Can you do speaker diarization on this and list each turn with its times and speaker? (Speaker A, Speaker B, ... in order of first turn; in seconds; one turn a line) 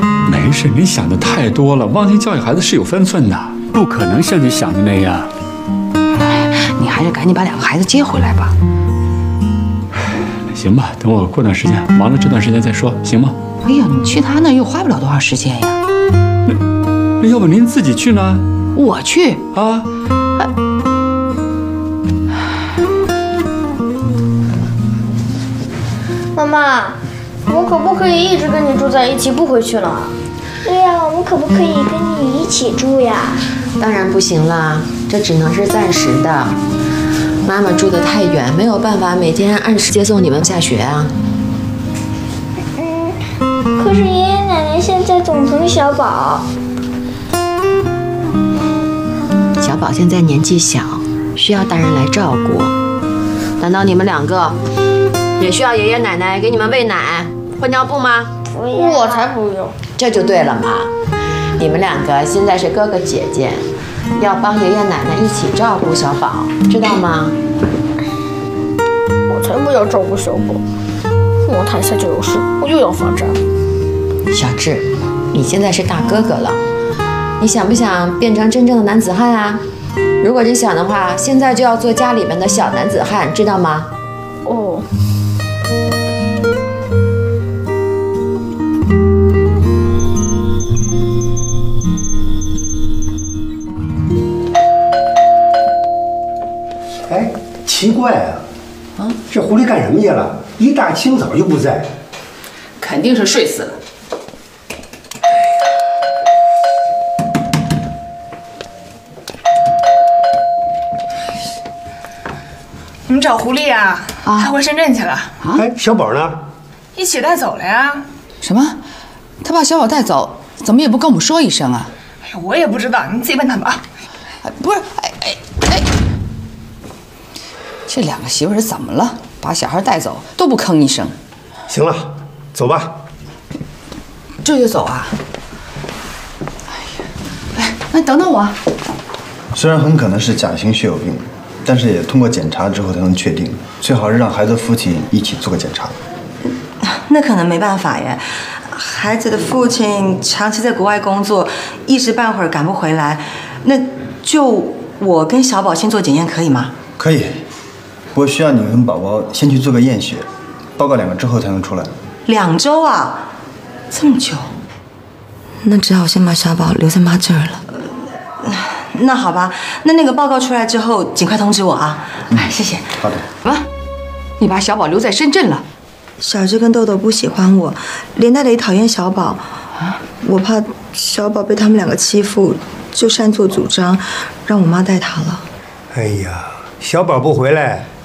Speaker A: 0.2-5.3
Speaker B: 6.2-8.5
Speaker A: 10.5-13.4
Speaker B: 13.6-15.8
Speaker A: 17.2-18.5
Speaker B: 18.8-19.4
Speaker A: 19.6-19.9
Speaker C: 26.4-30.1
Speaker D: 30.6-33.4
Speaker E: 33.8-36.6
Speaker E: 37.5-41.1
Speaker D: 43.8-46.5
Speaker E: 49.6-52.7
Speaker E: 53.6-54.6
Speaker E: 55.4-58.3
Speaker C: 58.5-59.8
Speaker D: 58.8-59.1
Speaker E: 60.0-60.9
Speaker E: 61.6-67.4
Speaker C: 69.3-70.6
Speaker C: 71.5-73.4
Speaker E: 74.3-76.6
Speaker E: 77.4-79.6
Speaker E: 80.2-83.9
Speaker C: 84.5-84.8
Speaker F: 97.1-98.4
Speaker F: 99.3-101.9
Speaker B: 102.8-103.8
Speaker G: 113.1-115.3
Speaker B: 114.2-114.5
Speaker F: 115.5-116.4
Speaker G: 117.0-118.1
Speaker B: 118.4-118.8
Speaker B: 119.4-121.9
Speaker G: 122.2-123.8
Speaker B: 124.4-125.9
Speaker B: 127.9-131.2
Speaker F: 131.7-132.9
Speaker B: 134.4-135.1
Speaker B: 137.6-138.6
Speaker H: 139.5-146.0
Speaker I: 146.8-156.8
Speaker H: 157.0-157.4
Speaker H: 158.1-161.9
Speaker I: 162.3-163.3
Speaker I: 163.9-164.5
Speaker I: 165.6-167.8
Speaker I: 168.4-172.2
Speaker H: 172.3-173.2
Speaker B: 172.4-172.9
Speaker B: 174.4-175.7
Speaker I: 176.2-179.5
Speaker I: 180.2-185.5
Speaker F: 185.9-187.9